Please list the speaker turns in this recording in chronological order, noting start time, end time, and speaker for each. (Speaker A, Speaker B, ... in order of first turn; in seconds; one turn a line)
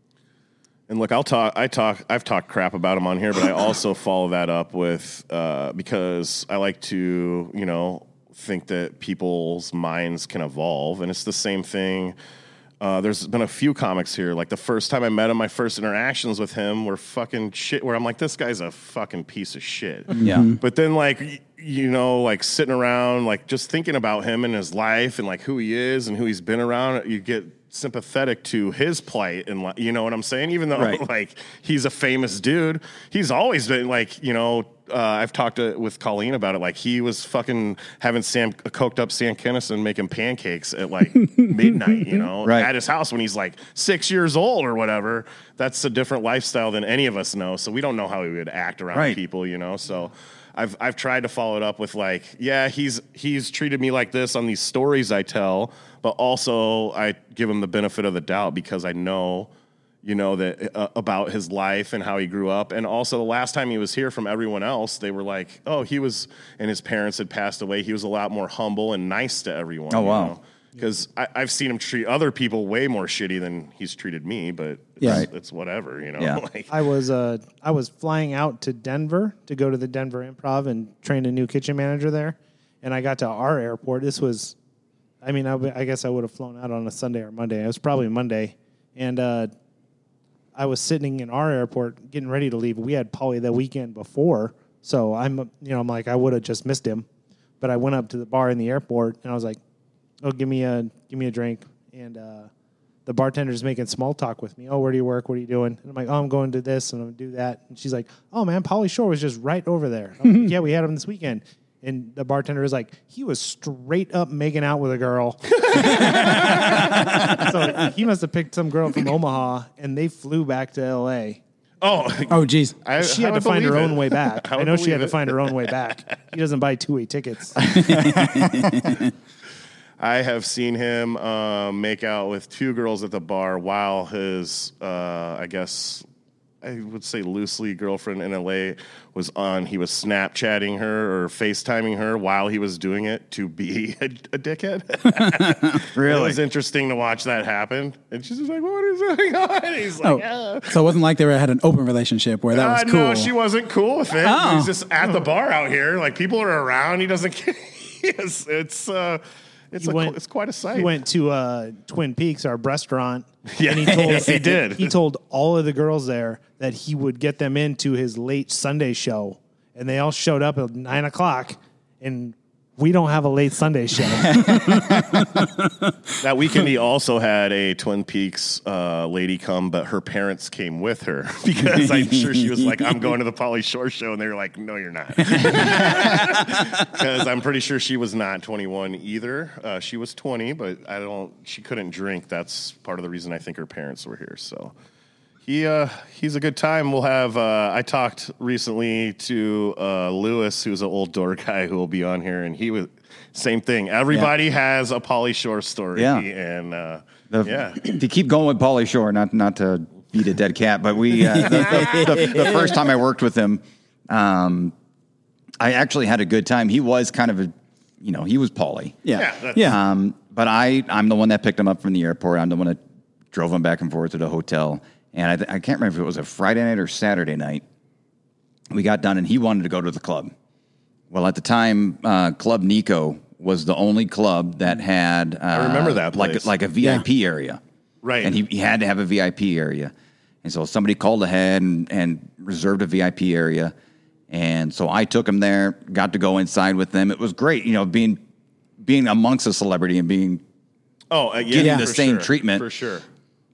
Speaker A: 0.9-12.1
Speaker A: 12.8-59.5
Speaker B: 20.2-20.6
Speaker C: 20.2-20.5
Speaker C: 30.8-31.0
Speaker C: 42.4-42.7
Speaker C: 48.9-49.2
Speaker A: 60.0-76.7
Speaker C: 69.9-70.3
Speaker B: 75.0-75.3
Speaker C: 75.0-75.3
Speaker D: 76.7-84.5
Speaker D: 85.2-89.5
Speaker D: 90.5-97.1
Speaker D: 97.6-99.6
Speaker D: 100.2-102.5
Speaker D: 103.0-121.4
Speaker A: 115.6-117.4
Speaker A: 121.8-125.7
Speaker B: 122.3-122.7
Speaker D: 123.0-127.6
Speaker B: 127.8-129.0
Speaker A: 130.0-136.0
Speaker A: 136.6-150.8
Speaker B: 145.2-145.8
Speaker C: 145.9-146.4
Speaker B: 150.0-153.3
Speaker A: 152.5-161.0
Speaker B: 154.2-154.7
Speaker D: 159.8-160.2
Speaker D: 160.7-174.6
Speaker A: 163.5-164.9
Speaker B: 174.3-175.7
Speaker A: 176.2-194.7
Speaker B: 181.8-182.4
Speaker B: 185.3-186.6
Speaker A: 195.4-207.9
Speaker C: 205.9-206.2
Speaker C: 207.3-214.7
Speaker B: 211.1-212.8
Speaker C: 215.6-219.0
Speaker B: 219.0-219.8
Speaker A: 219.1-219.7
Speaker C: 219.6-222.8
Speaker C: 223.3-227.6
Speaker C: 228.7-230.3
Speaker C: 231.1-237.6
Speaker A: 235.5-236.5
Speaker A: 238.0-238.3
Speaker C: 238.2-239.9
Speaker C: 240.4-243.7
Speaker C: 244.3-248.2
Speaker C: 248.8-250.4
Speaker A: 251.1-253.0
Speaker C: 251.5-252.6
Speaker B: 251.6-251.9